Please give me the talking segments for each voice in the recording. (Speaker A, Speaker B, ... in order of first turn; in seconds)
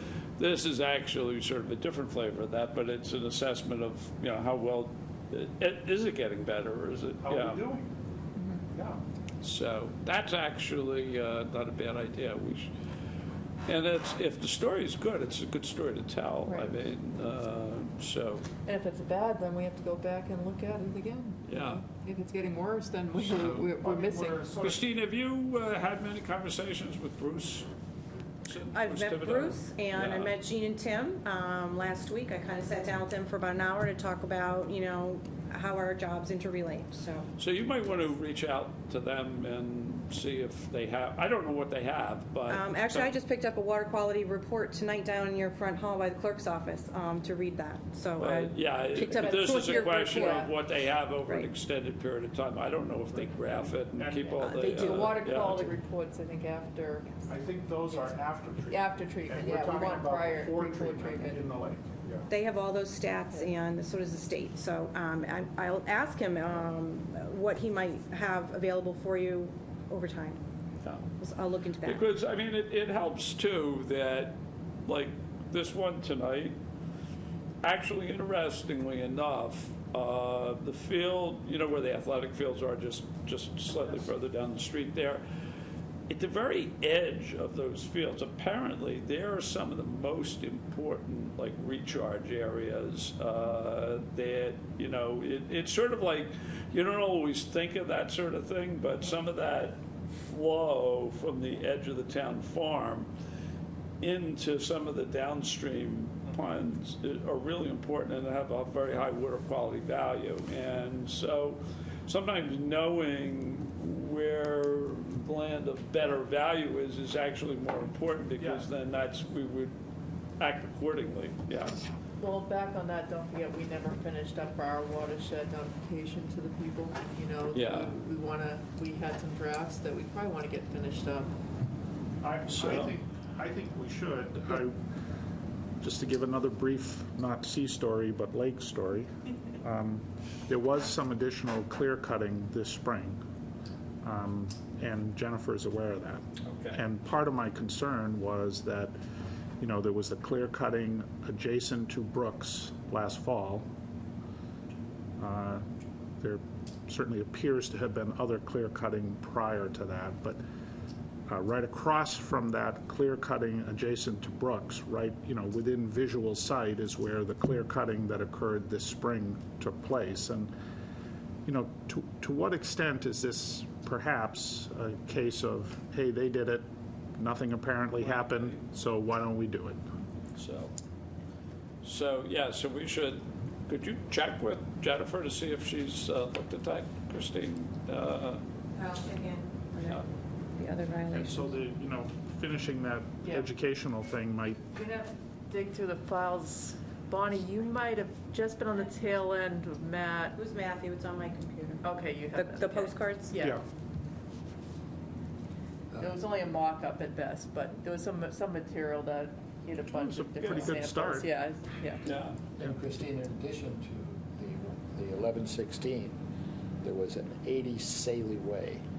Speaker A: 0.4-7.7, 9.4-12.7, 13.7-18.5, 21.4-21.8, 23.2-23.6, 24.6-27.7, 28.4-30.3, 37.4-43.1, 48.2-55.7, 70.8-71.1, 71.8-76.5, 77.6-85.2, 86.1-103.1, 104.0-119.7, 120.4-121.8, 127.5-127.9, 132.5-132.9, 146.4-146.8, 178.0-178.6, 180.3-180.7, 181.8-188.4, 212.0-212.4
Speaker B: 7.2-7.9, 8.7-9.0, 23.6-24.8, 53.9-54.5, 57.3-62.3, 118.4-118.7, 132.2-134.8, 135.8-139.1, 139.6-143.2, 144.0-148.9, 149.6-153.7, 155.2-155.6, 156.2-160.4, 161.3-170.5, 171.4-179.8, 191.1-194.6, 203.4-203.6, 209.9-211.3
Speaker C: 8.3-8.6, 16.4-16.7, 18.6-24.4, 49.1-50.5, 54.8-57.1, 58.7-61.4, 122.2-131.3, 194.7-200.4, 201.8-203.6, 206.0-212.0
Speaker D: 28.7-37.3, 42.5-50.5, 54.4-55.3, 62.3-70.4, 71.2-72.0, 188.7-190.0, 190.5-191.5, 200.3-203.3
Speaker E: 212.6-216.2, 216.8-218.8